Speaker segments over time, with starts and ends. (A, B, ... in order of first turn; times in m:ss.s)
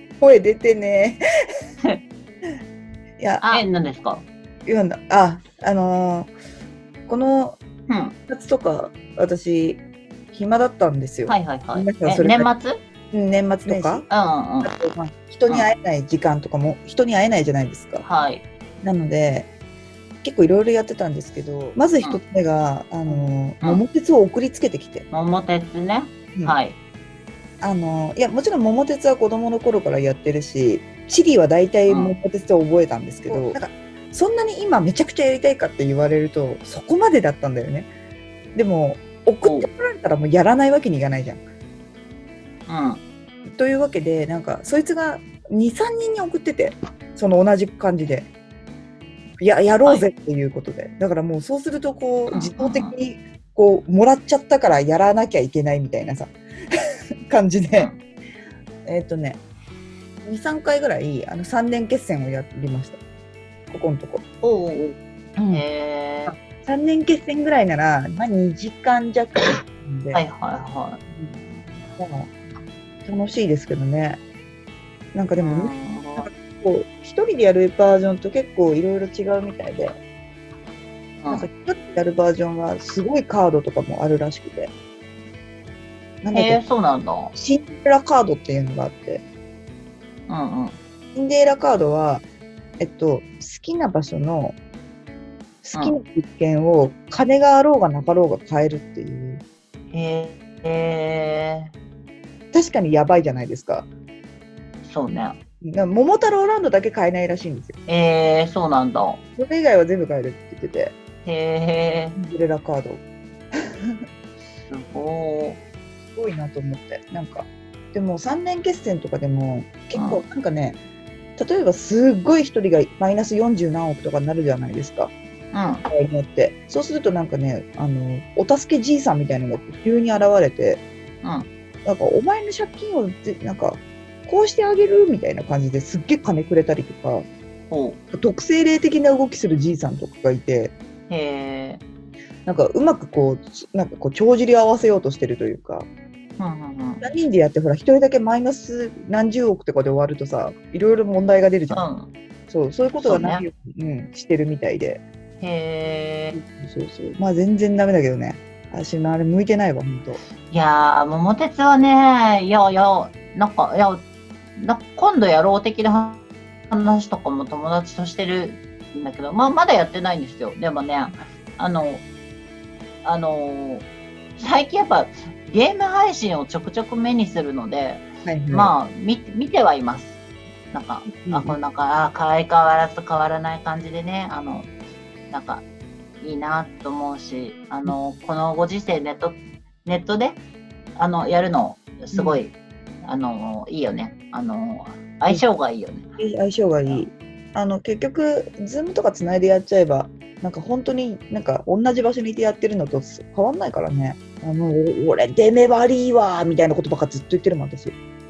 0:00.2-0:01.2 A
0:03.2-0:03.6 A
0:03.4-0:04.2 B
0:04.6-0:06.3 A
0:07.1-0:07.6 A
0:07.9-0:08.2 B
0:08.3-0:12.5 A
0:11.2-0:12.8 B
0:13.1-0:14.0 A
0:13.7-0:14.7 B
0:14.6-0:18.0 A
0:18.0-0:18.4 B
0:18.8-0:19.5 A
0:20.2-0:25.0 A
0:23.0-0:23.8 B
0:25.1-0:26.8 B
0:27.6-0:37.9 A
0:31.9-0:32.1 B
0:38.5-0:41.4 A
0:39.4-0:39.7 B
0:42.7-0:43.0 B
0:43.5-0:48.3 A
0:49.4-0:56.3 A
0:52.3-0:53.0 B
0:57.3-0:57.9 A
0:57.7-0:58.0 B
0:58.8-0:59.4 A
1:00.2-1:03.0 A
1:03.7-1:04.2 A
1:04.4-1:05.0 B
1:05.4-1:05.6 A
1:05.5-1:06.3 B
1:06.3-1:10.2 A
1:10.1-1:11.1 B
1:12.0-1:12.3 A
1:13.0-1:14.2 A
1:15.1-1:20.0 A
1:15.4-1:16.3 B
1:21.2-1:21.5 B
1:21.3-1:24.7 A
1:26.2-1:26.6 A
1:26.3-1:27.3 B
1:27.3-1:29.2 A
1:30.3-1:30.8 B
1:31.1-1:32.2 A
1:32.8-1:34.6 A
1:35.6-1:39.4 A
1:39.9-1:41.7 B
1:42.5-1:43.9 A
1:44.8-1:45.4 B
1:45.6-1:47.8 A
1:47.9-1:49.2 B
1:49.4-1:50.9 A
1:51.2-1:52.2 B
1:52.2-1:53.0 A
1:54.6-1:55.6 B
1:56.1-2:00.8 A
1:59.9-2:00.2 B
2:01.4-2:05.1 A
2:05.5-2:05.8 B
2:05.9-2:10.8 A
2:11.2-2:11.5 B
2:11.8-2:17.2 A
2:17.7-2:18.0 B
2:18.1-2:20.7 A
2:21.1-2:21.8 B
2:22.4-2:25.9 A
2:26.4-2:27.0 B
2:27.0-2:31.9 A
2:31.7-2:32.1 B
2:32.5-2:35.0 A
2:33.0-2:33.4 B
2:35.4-2:36.4 B
2:36.3-2:40.2 A
2:40.5-2:52.0 B
2:53.0-2:53.9 B
2:54.4-3:00.2 B
2:58.2-2:58.7 A
3:00.7-3:04.7 B
3:01.2-3:01.6 A
3:05.3-3:05.6 B
3:06.2-3:10.4 B
3:10.9-3:16.1 B
3:12.1-3:12.4 A
3:16.2-3:27.9 A